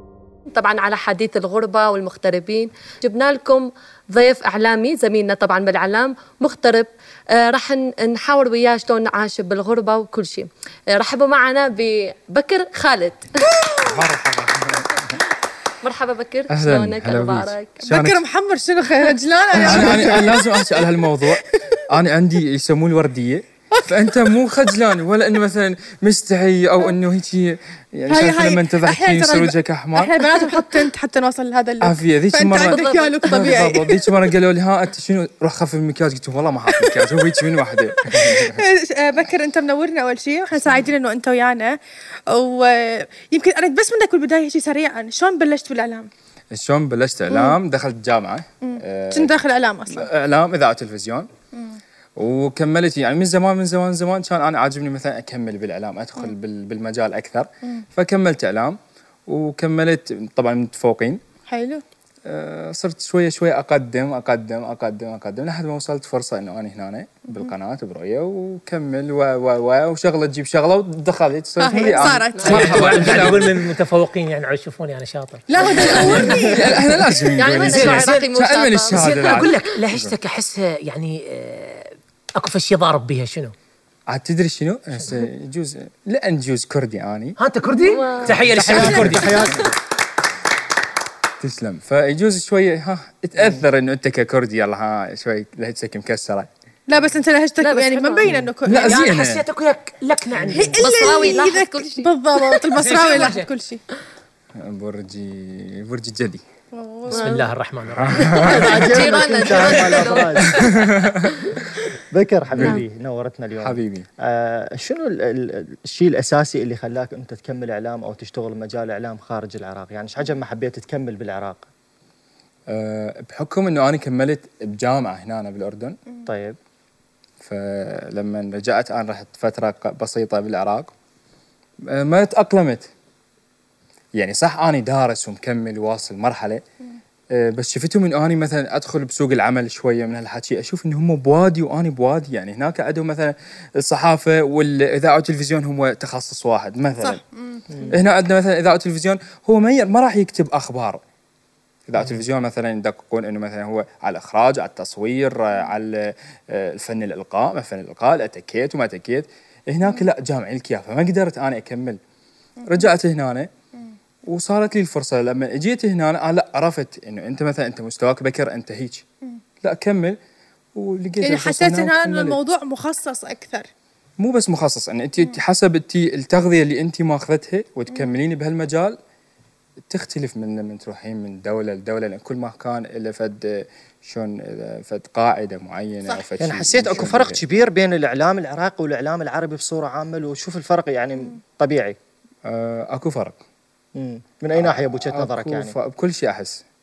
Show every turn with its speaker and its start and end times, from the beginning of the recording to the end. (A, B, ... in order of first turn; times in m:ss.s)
0:00.5-0:13.4 A
0:13.6-0:14.0 B
0:13.8-0:15.2 C
0:15.8-0:17.9 A
0:16.5-0:18.2 C
0:17.8-0:21.8 B
0:19.5-0:30.3 C
0:19.7-0:20.3 D
0:23.7-0:24.3 B
0:28.1-0:34.2 B
0:31.8-0:38.6 C
0:32.8-0:33.4 A
0:36.7-0:41.8 B
0:42.3-0:46.1 B
0:46.5-0:49.3 C
0:47.3-0:47.6 B
0:48.7-0:50.1 B
0:49.9-0:51.3 C
0:52.2-1:01.2 C
1:01.5-1:01.8 B
1:02.2-1:13.7 C
1:11.6-1:13.1 B
1:12.3-1:12.7 A
1:12.4-1:16.4 E
1:15.5-1:17.0 B
1:15.9-1:20.2 C
1:16.0-1:16.6 A
1:17.4-1:19.8 A
1:17.6-1:18.3 E
1:18.9-1:23.5 E
1:24.1-1:27.4 C
1:27.4-1:29.5 E
1:27.9-1:28.4 A
1:28.2-1:29.4 C
1:28.4-1:29.8 D
1:31.4-1:36.5 C
1:36.9-1:38.9 B
1:37.6-1:38.4 A
1:38.2-1:38.5 D
1:38.6-1:39.4 C
1:38.7-1:40.8 E
1:40.4-1:40.8 D
1:40.5-1:43.8 B
1:40.8-1:42.6 A
1:42.8-1:43.5 E
1:44.6-1:46.4 C
1:46.7-1:47.2 B
1:47.1-1:47.5 A
1:47.1-1:48.4 E
1:47.9-1:49.0 C
1:48.1-1:51.4 A
1:48.4-1:50.6 D
1:50.4-1:51.5 C
1:51.9-2:01.7 D
1:52.5-1:52.8 C
1:53.6-1:54.1 C
2:02.7-2:06.0 C
2:06.3-2:06.6 D
2:07.4-2:10.9 C
2:11.9-2:12.9 C
2:14.1-2:16.6 C
2:17.3-2:27.2 C
2:27.0-2:27.6 B
2:27.9-2:31.0 C
2:31.9-2:42.0 C
2:42.7-2:43.5 C
2:44.3-2:49.0 C
2:49.6-2:50.2 C
2:50.7-2:52.4 C
2:51.2-2:53.7 B
2:54.2-2:58.9 C
2:59.9-3:07.4 C
3:06.4-3:12.0 D
3:12.4-3:13.4 C
3:13.9-3:15.7 D
3:14.5-3:16.6 C